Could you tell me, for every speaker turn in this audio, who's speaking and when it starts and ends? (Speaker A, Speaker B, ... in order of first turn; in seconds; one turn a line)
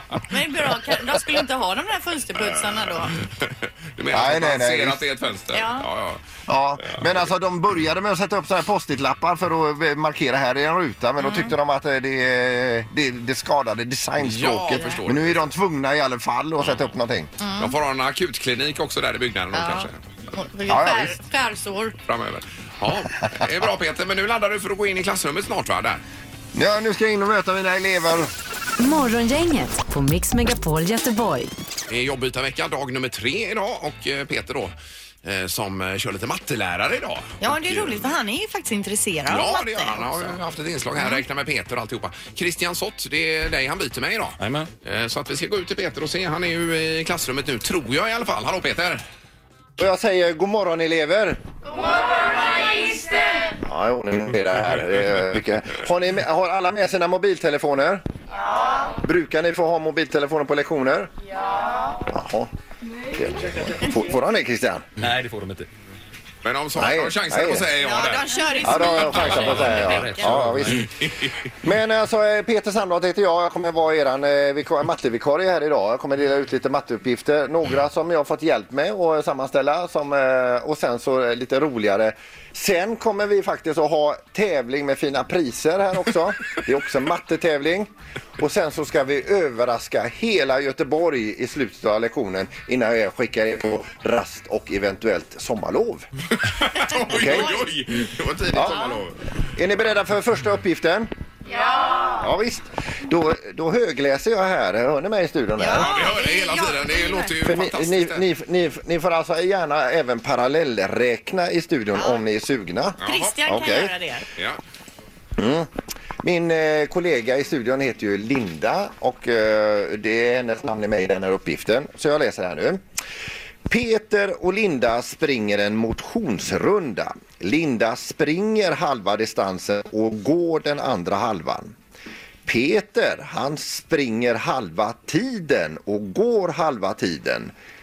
Speaker A: 0.3-3.1
Speaker B: 2.4-6.2
Speaker C: 4.1-5.0
Speaker A: 5.5-5.9
Speaker C: 6.5-17.3
Speaker B: 6.8-7.1
Speaker A: 11.2-11.5
Speaker B: 14.2-15.5
Speaker A: 17.4-17.7
Speaker B: 17.6-20.0
Speaker A: 19.5-21.9
Speaker C: 20.7-21.1
Speaker B: 22.1-26.0
Speaker C: 26.5-28.3
Speaker D: 28.8-31.5
Speaker B: 31.9-38.1
Speaker A: 37.4-40.4
Speaker B: 39.3-49.0
Speaker E: 44.4-44.7
Speaker C: 49.8-51.4
Speaker A: 52.4-53.1
Speaker C: 53.6-58.0
Speaker C: 59.0-61.1
Speaker C: 62.1-62.5
Speaker C: 63.1-64.9
Speaker E: 65.0-65.7
Speaker B: 66.4-69.5
Speaker C: 66.8-67.7
Speaker A: 67.8-70.4
Speaker C: 68.6-70.9
Speaker E: 69.2-70.9
Speaker B: 70.8-71.3
Speaker C: 71.6-96.1
Speaker B: 96.4-99.2
Speaker C: 97.1-97.5
Speaker C: 98.5-98.8
Speaker A: 98.7-99.0
Speaker C: 99.5-101.1
Speaker A: 101.6-102.1
Speaker C: 102.1-105.9
Speaker A: 105.6-107.3
Speaker B: 105.7-108.2
Speaker C: 107.4-113.9
Speaker A: 112.0-112.2
Speaker B: 113.0-113.4
Speaker A: 113.0-114.3
Speaker C: 115.4-115.7
Speaker C: 116.2-122.8
Speaker C: 123.7-131.8
Speaker C: 132.5-137.5